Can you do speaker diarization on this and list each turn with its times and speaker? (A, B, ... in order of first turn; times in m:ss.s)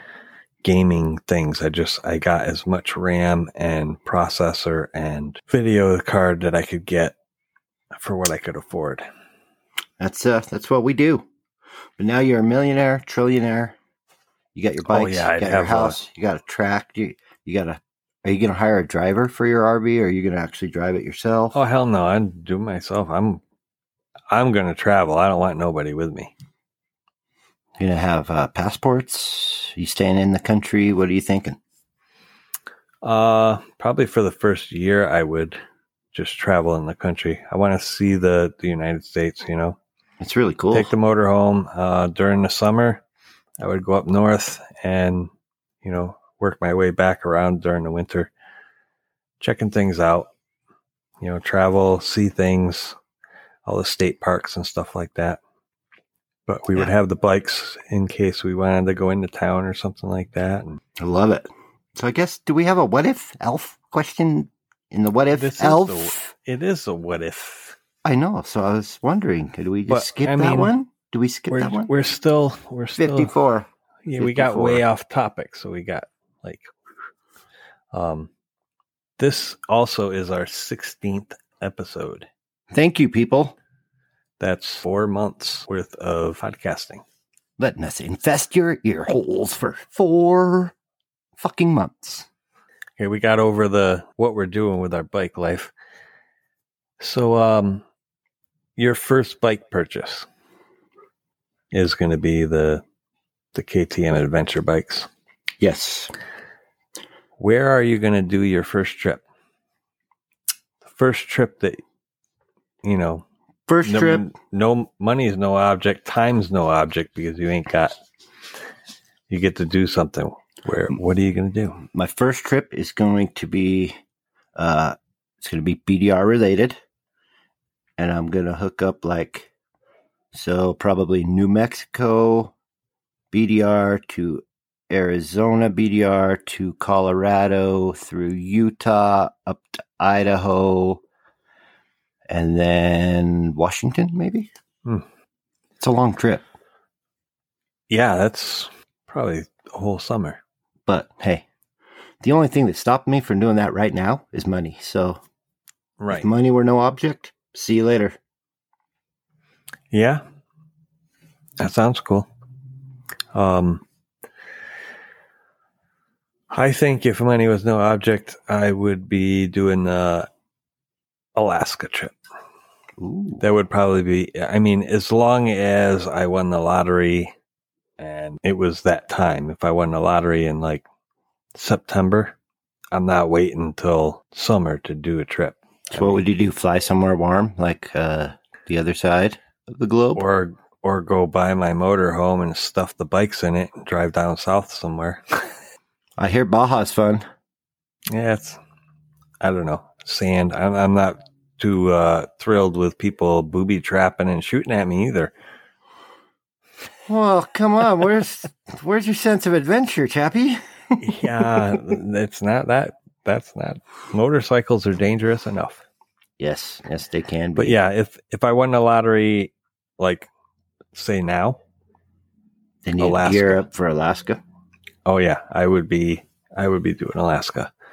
0:00.6-0:07.2 A
0:08.0-0:09.0 A
0:10.0-0:11.2 B
0:12.0-0:13.8 B
0:14.5-0:21.6 B
0:14.9-0:16.0 A
0:21.5-0:23.4 A
0:24.3-0:26.3 A
0:27.8-0:31.6 B
0:33.0-0:35.6 A
0:36.1-0:39.8 A
0:40.2-0:40.9 B
0:40.7-0:43.0 A
0:43.6-0:45.3 A
0:45.8-0:48.3 A
0:49.4-0:50.3 A
0:51.2-0:53.0 A
0:53.6-0:55.4 A
0:56.5-1:00.8 A
1:01.0-1:06.3 B
1:05.3-1:07.8 A
1:08.0-1:11.9 B
1:09.9-1:10.7 A
1:11.5-1:13.3 A
1:13.0-1:13.7 B
1:14.0-1:16.7 A
1:14.2-1:14.8 B
1:17.9-1:18.3 A
1:19.2-1:22.3 A
1:22.7-1:23.5 B
1:24.4-1:27.0 A
1:27.6-1:30.7 B
1:31.4-1:32.3 B
1:33.0-1:35.7 A
1:37.0-1:37.8 A
1:38.8-1:40.3 A
1:41.7-1:42.8 A
1:43.5-1:45.1 A
1:45.6-1:46.1 B
1:47.4-1:49.2 A
1:50.8-1:51.8 A
1:52.8-1:53.2 A
1:53.7-1:54.3 B
1:53.8-1:58.0 A
1:59.3-2:01.8 A
2:01.9-2:03.9 B
2:04.6-2:06.8 B
2:08.0-2:09.5 B
2:10.3-2:12.5 B
2:13.3-2:21.0 B
2:22.3-2:24.5 B
2:25.8-2:26.4 B
2:27.9-2:30.4 A
2:30.9-2:31.4 B
2:32.2-2:35.2 B
2:36.0-2:36.3 A
2:36.1-2:38.2 B
2:39.9-2:40.2 A
2:41.6-2:42.3 A
2:43.3-2:43.8 A
2:46.5-2:50.3 A
2:51.3-2:52.2 A
2:53.0-2:53.4 B
2:53.4-2:57.3 A
2:58.0-3:00.8 A
3:01.5-3:02.4 A
3:02.9-3:06.2 A
3:05.9-3:10.2 B
3:10.1-3:15.5 A
3:16.2-3:17.2 B
3:18.1-3:18.6 A
3:19.4-3:25.3 A
3:27.1-3:31.7 B
3:31.0-3:35.8 A
3:36.4-3:37.8 B
3:37.6-3:40.3 A
3:40.9-3:41.6 A
3:42.8-3:44.4 B
3:43.0-3:43.7 A
3:45.0-3:47.7 A